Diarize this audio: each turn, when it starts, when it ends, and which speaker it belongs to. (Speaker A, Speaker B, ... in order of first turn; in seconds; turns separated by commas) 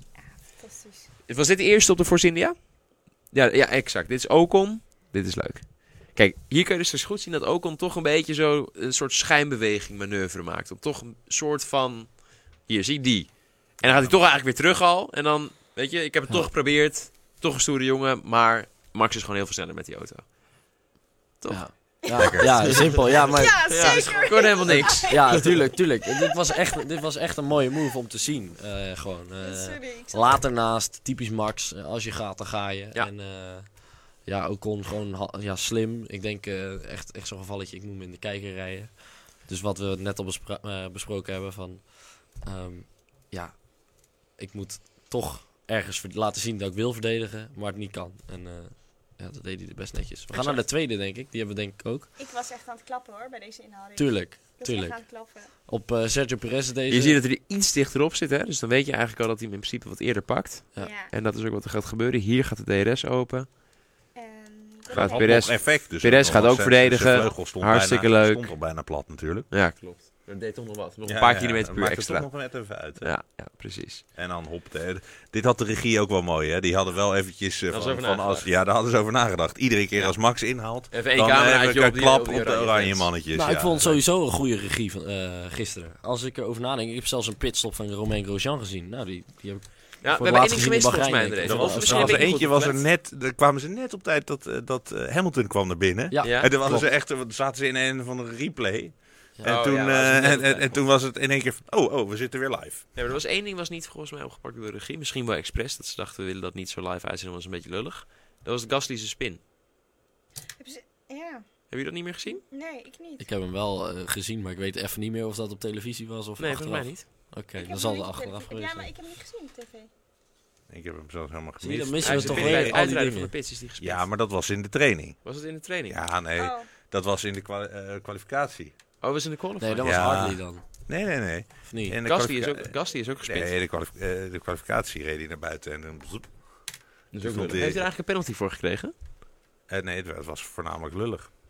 Speaker A: 0.1-1.1, Speaker B: 1.3-20.3, Speaker C: 13.8-14.2, Speaker B: 21.4-22.9, Speaker D: 21.5-52.1, Speaker A: 22.1-25.6, Speaker B: 23.7-25.5, Speaker A: 29.4-30.4, Speaker A: 50.3-50.6, Speaker A: 52.2-55.5, Speaker D: 54.0-57.2, Speaker B: 56.9-63.5, Speaker A: 60.8-61.1, Speaker A: 64.1-65.5, Speaker B: 64.9-68.5, Speaker C: 65.0-69.5, Speaker B: 69.5-74.0, Speaker C: 71.0-73.2, Speaker C: 74.1-84.0, Speaker B: 77.7-78.5, Speaker B: 79.9-83.1, Speaker D: 83.3-92.2, Speaker B: 90.0-92.8, Speaker C: 91.4-102.9, Speaker D: 96.1-96.9, Speaker B: 96.2-96.5, Speaker B: 99.4-100.9, Speaker B: 102.9-109.4, Speaker A: 110.6-111.6, Speaker B: 111.7-112.4, Speaker A: 112.5-113.3, Speaker D: 113.2-118.9, Speaker B: 116.4-117.1, Speaker A: 117.6-119.9, Speaker C: 120.7-122.8, Speaker D: 121.6-123.3, Speaker B: 122.0-124.1, Speaker C: 123.8-125.3, Speaker B: 125.2-126.0, Speaker C: 125.8-128.7, Speaker A: 126.4-126.7, Speaker B: 129.0-130.0, Speaker D: 129.6-130.6, Speaker C: 129.8-137.9, Speaker D: 131.6-132.0, Speaker B: 132.0-133.5, Speaker B: 137.1-138.9, Speaker C: 139.7-141.3